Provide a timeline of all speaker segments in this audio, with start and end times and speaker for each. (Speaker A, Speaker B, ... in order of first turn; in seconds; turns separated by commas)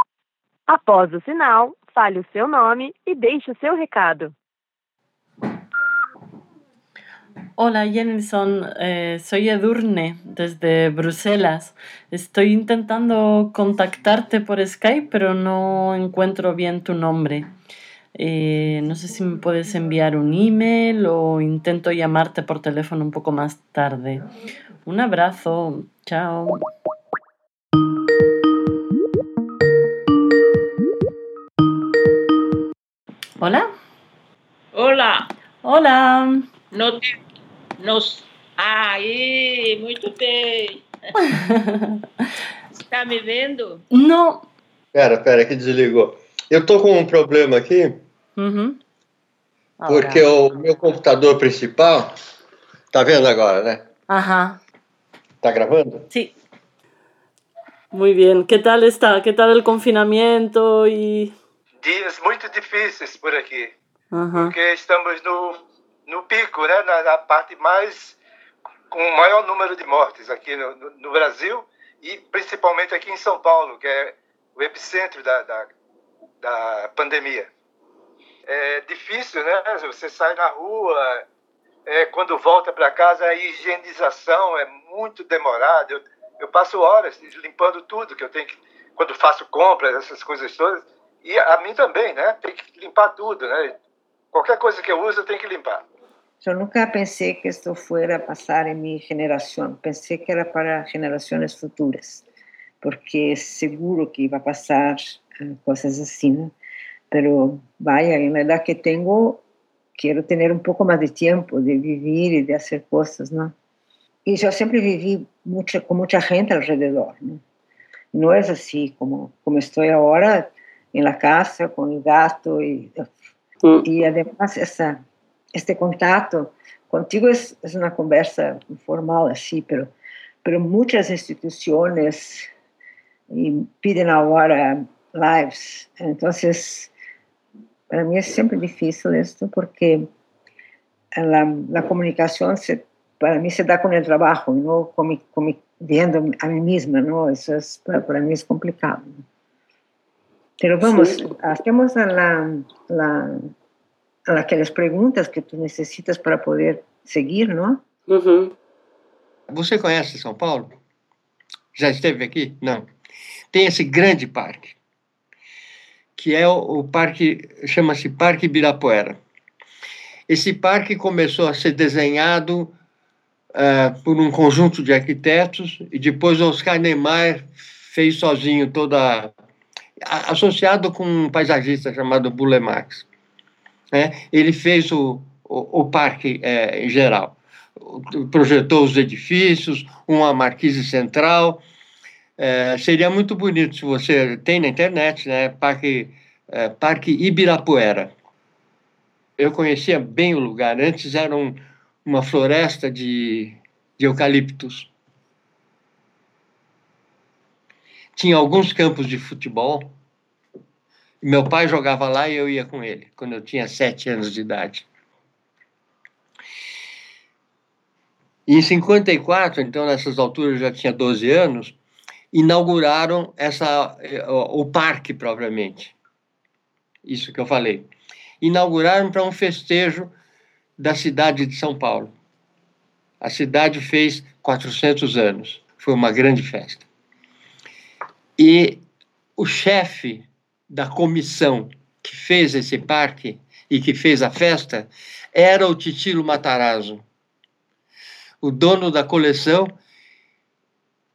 Speaker A: 0.7-4.3, Speaker B: 7.5-17.5, Speaker B: 18.1-24.2, Speaker B: 24.8-26.6, Speaker B: 33.4-33.7, Speaker C: 34.7-35.3, Speaker B: 35.6-36.5, Speaker C: 36.7-37.0, Speaker C: 37.8-40.9, Speaker B: 41.3-41.8, Speaker C: 42.7-43.8, Speaker B: 43.9-44.4, Speaker D: 44.9-48.0, Speaker B: 48.4-48.8, Speaker B: 49.8-50.3, Speaker D: 49.9-52.1, Speaker D: 52.9-53.8, Speaker B: 54.1-54.6, Speaker D: 55.4-56.0, Speaker B: 57.9-61.3, Speaker E: 61.8-63.7, Speaker B: 64.1-64.5, Speaker E: 64.3-68.2, Speaker E: 68.9-75.7, Speaker E: 76.4-77.5, Speaker E: 78.5-81.2, Speaker E: 81.8-93.7, Speaker E: 94.3-95.8, Speaker F: 96.4-102.2, Speaker F: 102.8-106.5, Speaker F: 107.1-109.4, Speaker F: 110.0-113.5, Speaker F: 114.2-117.4, Speaker F: 118.1-123.0, Speaker F: 123.8-125.0, Speaker F: 125.5-129.9, Speaker F: 130.4-132.5, Speaker F: 133.3-136.9, Speaker F: 137.9-140.1, Speaker F: 141.2-149.2, Speaker F: 150.6-153.4, Speaker B: 150.8-151.3, Speaker F: 154.3-157.8, Speaker B: 158.1-158.5, Speaker D: 159.5-160.8, Speaker D: 161.7-162.9, Speaker D: 163.5-164.8, Speaker D: 166.2-169.2, Speaker D: 170.3-172.7, Speaker D: 173.5-179.3, Speaker D: 180.1-183.1, Speaker D: 183.9-191.6, Speaker D: 192.4-198.1, Speaker D: 199.4-204.9, Speaker D: 208.1-209.9, Speaker D: 211.2-214.9, Speaker D: 218.5-221.8, Speaker D: 222.3-225.9, Speaker D: 227.1-230.1, Speaker D: 230.8-232.1, Speaker D: 233.2-236.9, Speaker D: 238.4-238.8, Speaker D: 239.4-247.0, Speaker D: 248.4-249.8